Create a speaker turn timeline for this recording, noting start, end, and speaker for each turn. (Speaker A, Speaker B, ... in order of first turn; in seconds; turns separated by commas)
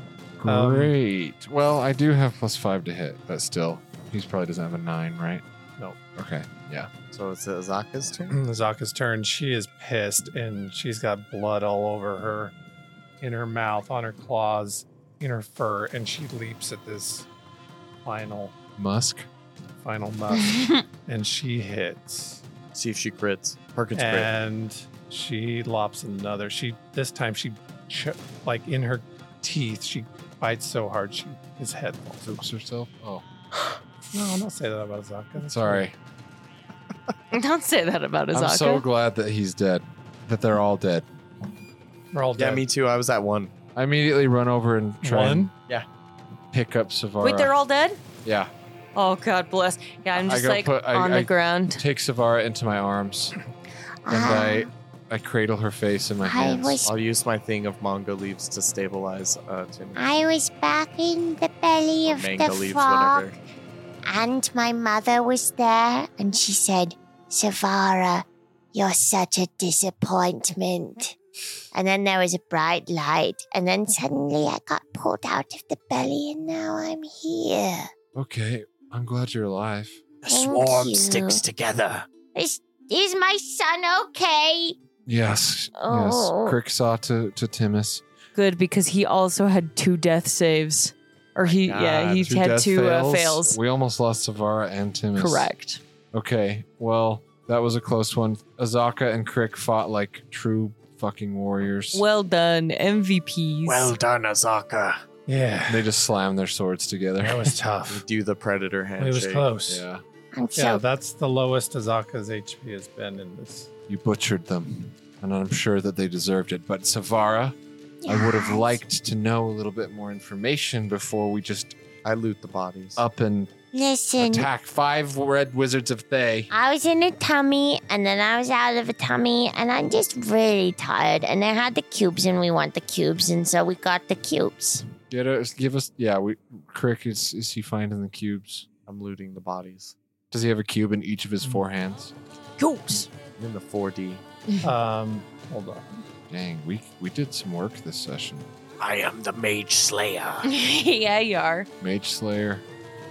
Speaker A: 0.4-5.4, Speaker B: 0.5-0.9, Speaker A: 6.1-6.9, Speaker C: 7.1-8.3, Speaker B: 8.3-12.5, Speaker B: 13.2-17.3, Speaker B: 18.0-18.5, Speaker A: 18.8-19.3, Speaker B: 19.8-22.4, Speaker C: 22.7-24.3, Speaker B: 23.9-32.3, Speaker A: 32.2-33.2, Speaker B: 34.1-35.9, Speaker A: 35.4-36.0, Speaker D: 37.3-38.8, Speaker A: 38.3-41.1, Speaker B: 42.1-42.6, Speaker C: 42.4-43.5, Speaker A: 43.7-45.5, Speaker B: 45.0-45.5, Speaker A: 46.5-47.5, Speaker D: 47.2-48.0, Speaker A: 48.2-48.5, Speaker D: 48.9-51.8, Speaker A: 50.1-53.4, Speaker E: 54.0-54.7, Speaker A: 54.1-56.8, Speaker E: 56.2-56.9, Speaker C: 56.8-60.0, Speaker E: 60.0-63.3, Speaker C: 62.0-63.3, Speaker E: 64.0-71.2, Speaker E: 71.7-77.9, Speaker A: 78.1-80.0, Speaker F: 80.2-82.1, Speaker E: 80.3-81.4, Speaker E: 82.3-84.8, Speaker A: 85.0-88.0, Speaker E: 85.8-86.6, Speaker D: 88.3-93.6, Speaker C: 91.4-92.1, Speaker A: 92.0-95.5, Speaker D: 95.2-95.8, Speaker A: 96.1-102.0, Speaker D: 101.9-104.0, Speaker F: 103.6-105.0, Speaker B: 105.3-105.9, Speaker A: 105.7-107.6, Speaker B: 107.2-108.0, Speaker C: 107.9-109.5, Speaker B: 109.0-109.8, Speaker A: 109.7-110.0, Speaker E: 110.3-110.8, Speaker B: 110.5-113.7, Speaker A: 113.9-121.8, Speaker E: 118.0-118.8, Speaker C: 122.0-123.0, Speaker A: 123.0-123.5, Speaker E: 123.7-124.5, Speaker A: 124.2-126.5, Speaker E: 126.5-134.8, Speaker A: 135.1-138.7, Speaker C: 138.9-139.9, Speaker A: 140.3-142.1, Speaker D: 142.6-143.1, Speaker C: 143.4-144.2, Speaker B: 144.6-146.1, Speaker A: 146.3-148.5, Speaker F: 148.8-150.4, Speaker D: 150.4-151.7, Speaker A: 151.8-152.7